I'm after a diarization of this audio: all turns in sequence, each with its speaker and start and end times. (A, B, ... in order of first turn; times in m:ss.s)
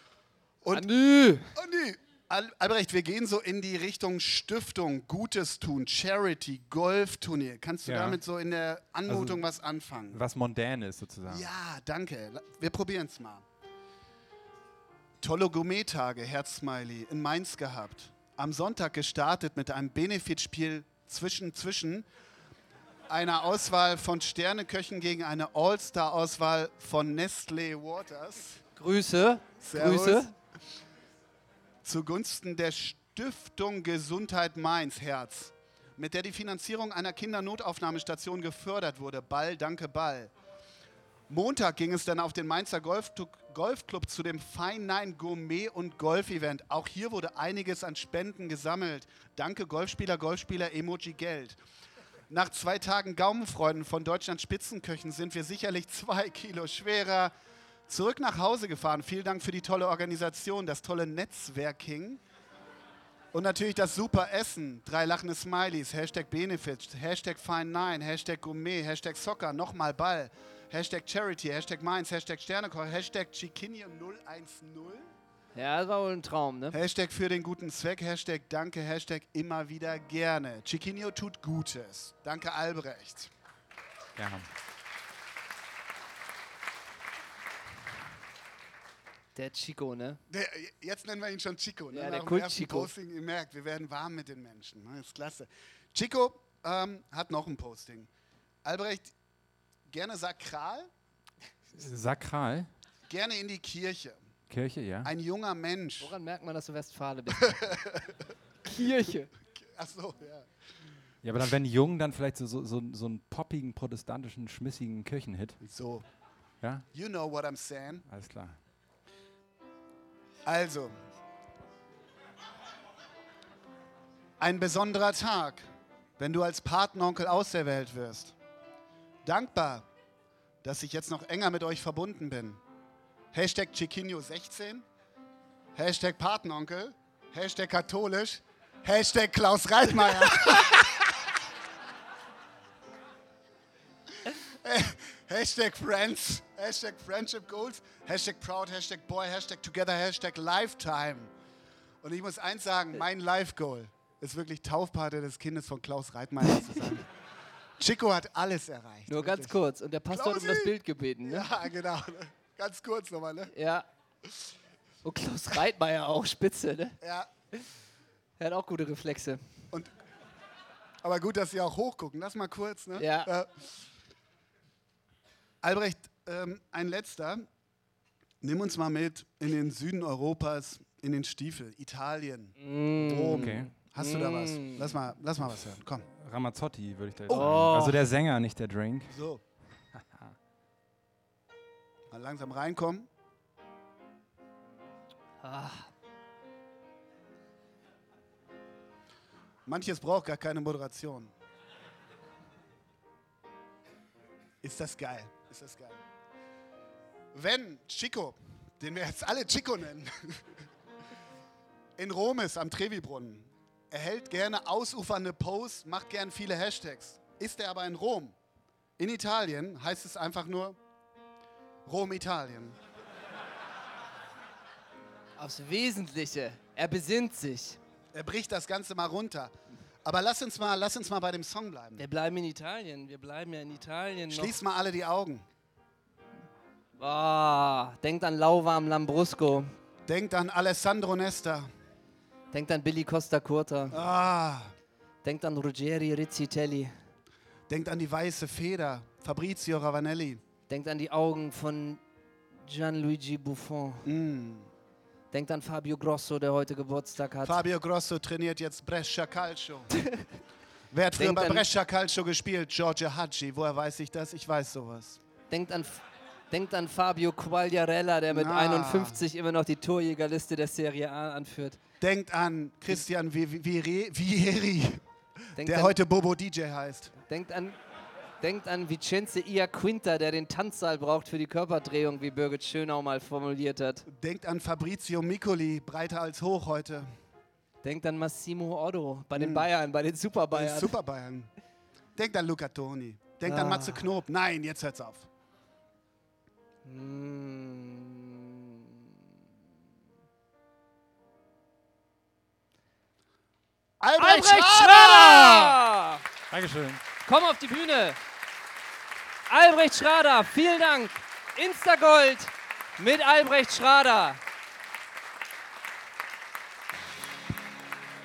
0:00.6-0:00.9 A
0:00.7-0:01.5 B
0:01.5-0:10.2 A
0:07.9-0:08.2 C
0:09.1-0:09.4 C
0:10.1-0:11.5 C
0:11.3-0:13.4 A
0:15.2-0:22.1 A
0:23.1-0:28.6 A
0:28.8-0:30.3 B
0:29.6-0:30.3 A
0:31.8-0:40.3 A
0:41.3-0:51.6 A
0:52.3-0:57.3 A
0:57.9-1:02.2 A
1:03.3-1:15.1 A
1:15.6-1:16.8 B
1:16.7-1:23.3 A
1:24.2-1:24.5 C
1:29.4-1:30.2 B
1:30.3-1:38.1 A
1:31.9-1:32.9 B
1:38.6-1:39.1 A
1:39.9-1:40.9 A
1:41.8-1:42.7 C
1:43.1-1:44.2 A
1:44.5-1:45.1 C
1:45.0-1:46.1 A
1:46.0-1:47.6 B
1:47.4-1:48.2 A
1:48.6-1:49.3 B
1:49.5-1:50.5 A
1:51.2-1:55.6 C
1:55.6-1:56.0 A
1:56.9-1:58.0 A
1:58.1-1:58.6 C
2:00.5-2:01.0 A
2:04.4-2:05.7 A
2:06.2-2:08.4 A
2:09.2-2:09.9 A
2:10.6-2:12.6 A
2:13.3-2:14.9 A
2:15.8-2:21.2 A
2:24.3-2:31.3 A
2:32.0-2:37.1 A
2:37.8-2:39.6 A
2:39.1-2:41.5 B
2:40.1-2:40.7 A
2:41.2-2:43.5 A
2:43.5-2:43.9 B
2:45.0-2:47.0 B
2:47.0-2:47.3 A
2:48.4-2:49.4 B
2:51.0-2:53.7 A
2:53.0-2:53.3 B
2:55.6-2:57.5 A
2:58.4-3:06.1 A
3:02.6-3:04.9 B
3:03.4-3:03.7 C
3:06.2-3:09.1 C
3:07.3-3:08.0 A
3:07.3-3:08.0 B
3:09.1-3:09.4 A
3:10.0-3:10.3 C
3:12.1-3:13.1 A
3:15.4-3:15.9 B
3:19.7-3:21.3 A
3:24.6-3:26.0 A
3:27.3-3:30.6 A
3:32.0-3:38.4 A
3:39.0-3:40.8 A
3:41.9-3:42.8 A
3:45.4-3:47.8 B
3:48.1-3:49.5 A
3:50.0-3:52.0 A
3:52.0-3:54.6 B
3:54.3-3:55.4 A
3:57.0-3:59.7 B
4:00.1-4:01.7 A
4:02.5-4:04.0 B
4:03.9-4:04.7 A
4:05.2-4:07.0 B
4:07.7-4:10.4 A
4:10.7-4:12.0 B
4:12.6-4:14.1 B
4:14.0-4:14.7 A
4:15.3-4:17.6 B
4:17.4-4:19.9 A
4:20.9-4:25.2 A
4:21.2-4:21.7 B
4:25.5-4:31.8 B
4:28.3-4:29.2 A
4:32.0-4:35.0 A
4:35.6-4:37.1 A
4:35.6-4:36.0 B
4:37.2-4:37.8 B
4:38.4-4:44.1 B
4:44.1-4:47.1 A
4:47.8-4:51.0 B
4:49.4-4:49.7 A
4:50.5-4:51.5 A
4:52.2-4:55.3 A
4:53.4-4:54.0 B
4:56.8-4:59.1 B
5:04.0-5:05.8 A
5:04.2-5:06.2 B
5:06.5-5:07.0 C
5:07.2-5:08.2 B
5:09.5-5:14.4 B